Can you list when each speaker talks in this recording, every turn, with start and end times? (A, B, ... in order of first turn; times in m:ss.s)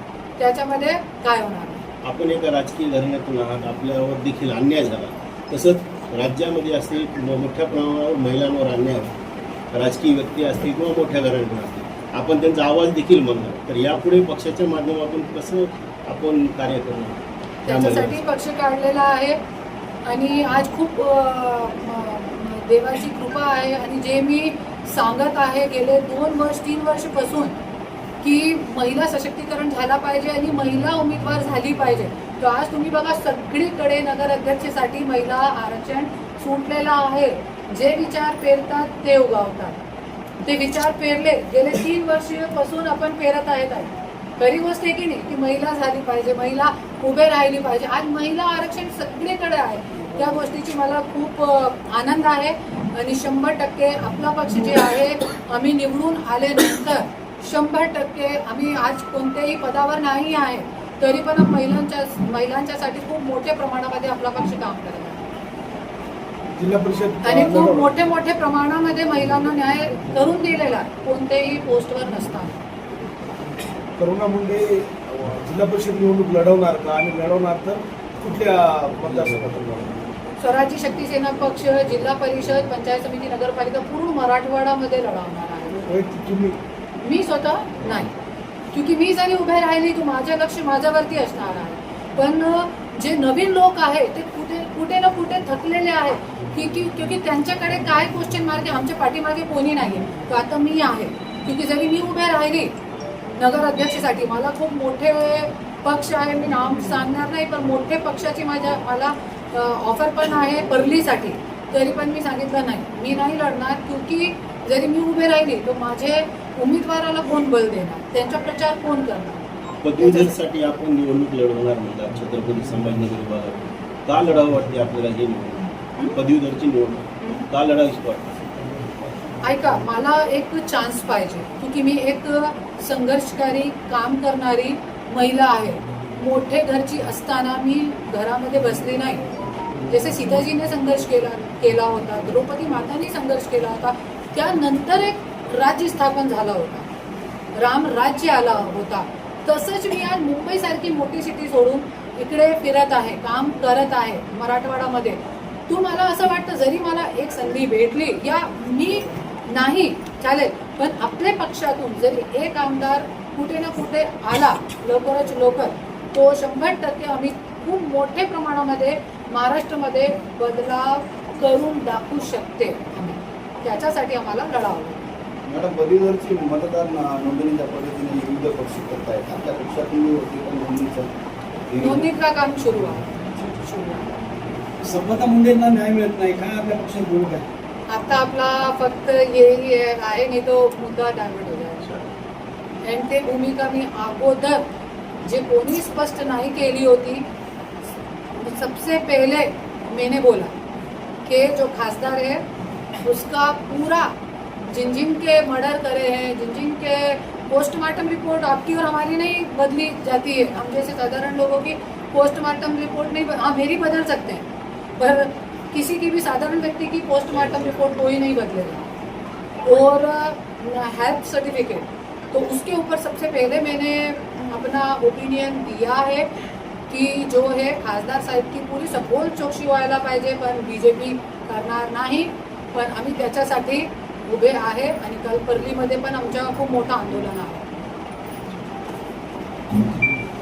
0:00.4-0:01.9 A
0:02.0-0:09.1 B
0:09.7-0:18.2 B
0:17.6-0:19.4 A
0:20.0-0:27.5 A
0:28.2-0:39.8 A
0:40.4-1:05.2 A
1:06.5-1:07.9 C
1:07.2-1:12.6 A
1:14.0-1:20.0 C
1:20.4-1:25.8 A
1:25.9-1:26.6 C
1:27.0-1:28.1 A
1:28.7-1:42.7 A
1:43.4-2:00.4 A
1:59.8-2:08.4 B
2:09.4-2:19.2 A
2:19.8-2:26.9 A
2:27.5-2:55.1 A
2:55.5-3:01.1 D
3:01.7-3:02.1 D
3:01.8-3:04.1 A
3:04.8-3:07.5 E
3:07.9-3:11.9 A
3:12.8-3:14.6 A
3:15.2-3:17.3 A
3:18.3-3:20.5 A
3:21.2-3:22.4 A
3:23.0-3:24.1 A
3:24.7-3:34.5 A
3:35.0-3:38.9 A
3:39.6-3:46.3 A
3:46.9-3:57.7 A